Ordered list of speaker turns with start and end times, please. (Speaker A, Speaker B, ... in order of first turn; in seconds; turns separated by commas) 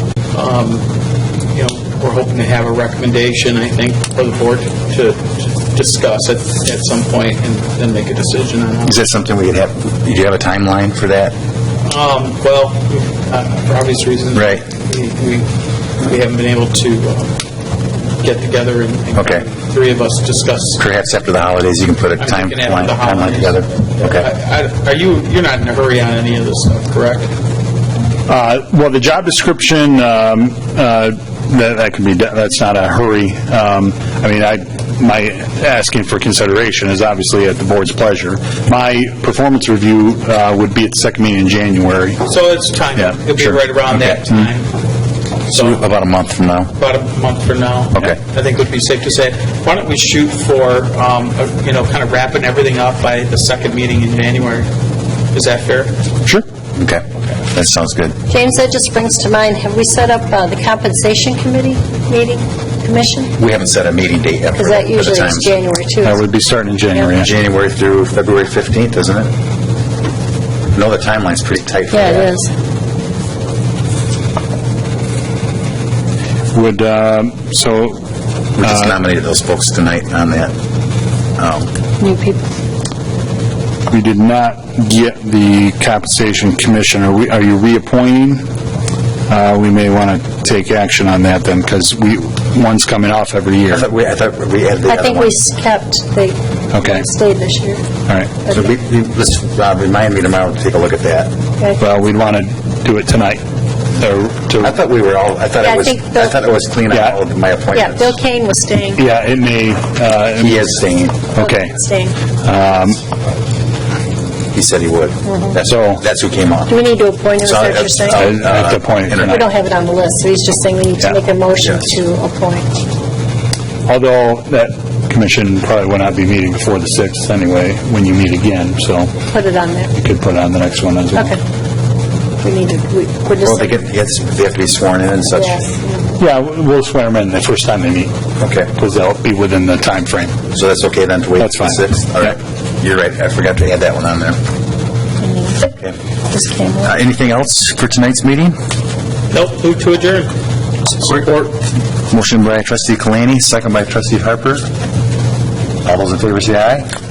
Speaker A: 0.3-0.9, Speaker A: 1.5-8.9, Speaker B: 8.8-11.3, Speaker A: 11.8-15.5, Speaker B: 14.3-14.6, Speaker A: 16.0-17.4, Speaker A: 18.2-20.8, Speaker B: 19.2-19.4, Speaker B: 20.8-24.3, Speaker A: 22.2-27.3, Speaker C: 28.3-42.2, Speaker A: 42.2-44.7, Speaker C: 43.0-43.6, Speaker B: 43.9-44.2, Speaker A: 45.5-45.8, Speaker B: 45.5-46.7, Speaker A: 46.8-54.7, Speaker A: 55.3-56.0, Speaker B: 56.8-58.2, Speaker D: 58.3-63.3, Speaker B: 63.4-65.5, Speaker D: 64.5-66.2, Speaker C: 66.0-67.3, Speaker B: 67.2-69.3, Speaker B: 70.7-72.3, Speaker D: 71.9-72.5, Speaker C: 76.5-78.0, Speaker B: 78.5-80.5, Speaker C: 78.6-78.9, Speaker B: 81.4-81.7, Speaker D: 82.0-82.4, Speaker C: 83.9-88.4, Speaker C: 89.3-93.8, Speaker B: 93.7-95.3, Speaker D: 94.9-97.8, Speaker C: 96.7-97.0, Speaker C: 98.1-98.4, Speaker B: 98.5-101.3, Speaker C: 101.8-103.4, Speaker C: 104.0-104.8, Speaker B: 104.6-108.2, Speaker D: 105.6-106.4, Speaker C: 106.9-107.2, Speaker D: 107.7-109.0, Speaker C: 109.0-110.7, Speaker B: 110.3-111.2, Speaker C: 111.3-111.8, Speaker D: 111.4-112.2, Speaker C: 112.4-113.0, Speaker B: 114.5-116.8, Speaker D: 115.2-115.6, Speaker C: 115.6-116.0, Speaker D: 116.7-118.3, Speaker B: 117.4-119.4, Speaker C: 118.1-119.5, Speaker D: 119.2-122.7, Speaker B: 121.6-121.9, Speaker C: 123.9-129.3, Speaker D: 129.3-129.9, Speaker C: 129.9-131.3, Speaker D: 131.1-131.4, Speaker D: 132.4-133.7, Speaker B: 133.4-135.6, Speaker D: 135.3-136.1, Speaker C: 136.2-138.1, Speaker B: 138.4-138.7, Speaker C: 138.7-140.4, Speaker B: 140.5-144.4, Speaker C: 141.4-142.3, Speaker D: 145.2-145.7, Speaker D: 146.3-146.9, Speaker B: 146.8-148.6, Speaker A: 149.3-150.3, Speaker A: 150.9-151.5, Speaker B: 152.1-154.6, Speaker B: 155.8-156.9